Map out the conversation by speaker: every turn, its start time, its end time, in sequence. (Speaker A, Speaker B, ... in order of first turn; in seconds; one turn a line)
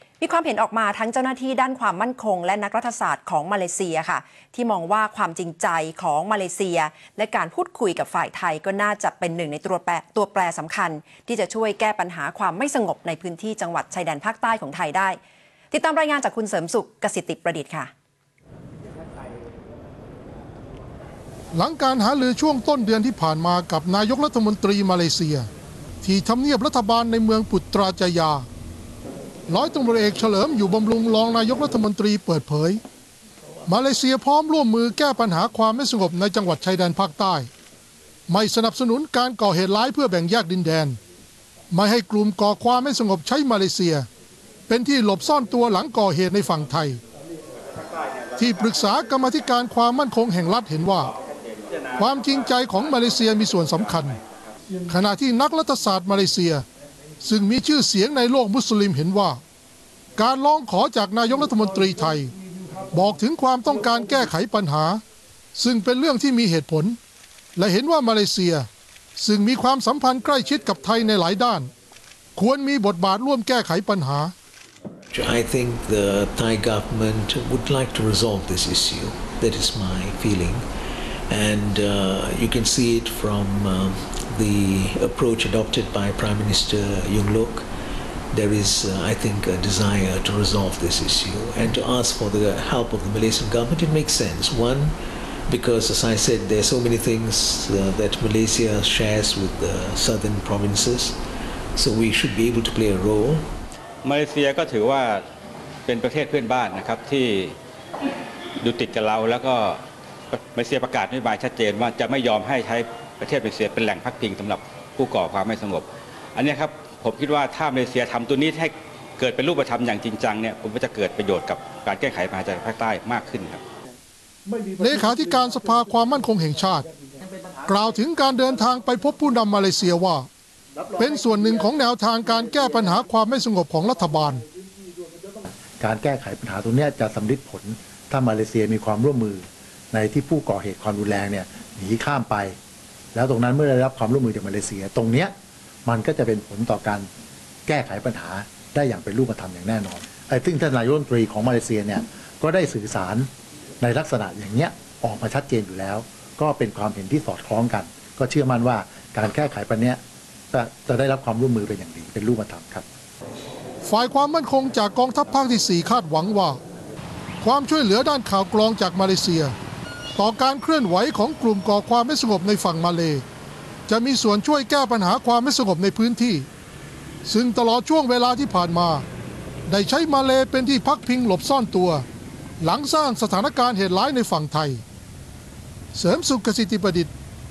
Speaker A: 0.2-15.2
Speaker A: 15.7-17.9
Speaker B: 21.5-25.5
Speaker B: 26.0-28.4
Speaker B: 29.5-32.8
Speaker B: 33.7-37.5
Speaker B: 38.3-41.0
Speaker B: 41.7-44.1
Speaker B: 44.7-47.0
Speaker B: 48.4-51.1
Speaker C: 51.1-52.0
Speaker B: 52.0-54.2
Speaker C: 54.2-54.5
Speaker B: 54.9-56.6
Speaker B: 57.2-59.4
Speaker B: 60.2-62.3
Speaker B: 62.9-65.0
Speaker B: 65.5-67.0
Speaker B: 67.5-68.7
Speaker B: 69.2-71.7
Speaker B: 72.3-74.3
Speaker D: 75.1-80.6
Speaker D: 81.3-87.7
Speaker D: 88.3-95.0
Speaker D: 95.5-101.2
Speaker D: 101.7-103.5
Speaker C: 104.0-105.2
Speaker C: 105.8-107.5
Speaker C: 108.6-109.8
Speaker C: 110.3-123.6
Speaker B: 124.8-126.8
Speaker B: 127.7-130.3
Speaker B: 130.9-134.4
Speaker E: 135.5-142.6
Speaker E: 143.1-145.3
Speaker E: 145.8-147.1
Speaker E: 147.7-153.3
Speaker E: 153.8-160.0
Speaker E: 160.5-162.8
Speaker B: 163.8-166.6
Speaker B: 167.4-169.5
Speaker B: 170.2-173.2
Speaker B: 173.9-176.5
Speaker B: 177.2-179.0
Speaker B: 179.7-182.1
Speaker B: 182.6-184.8
Speaker B: 185.9-187.1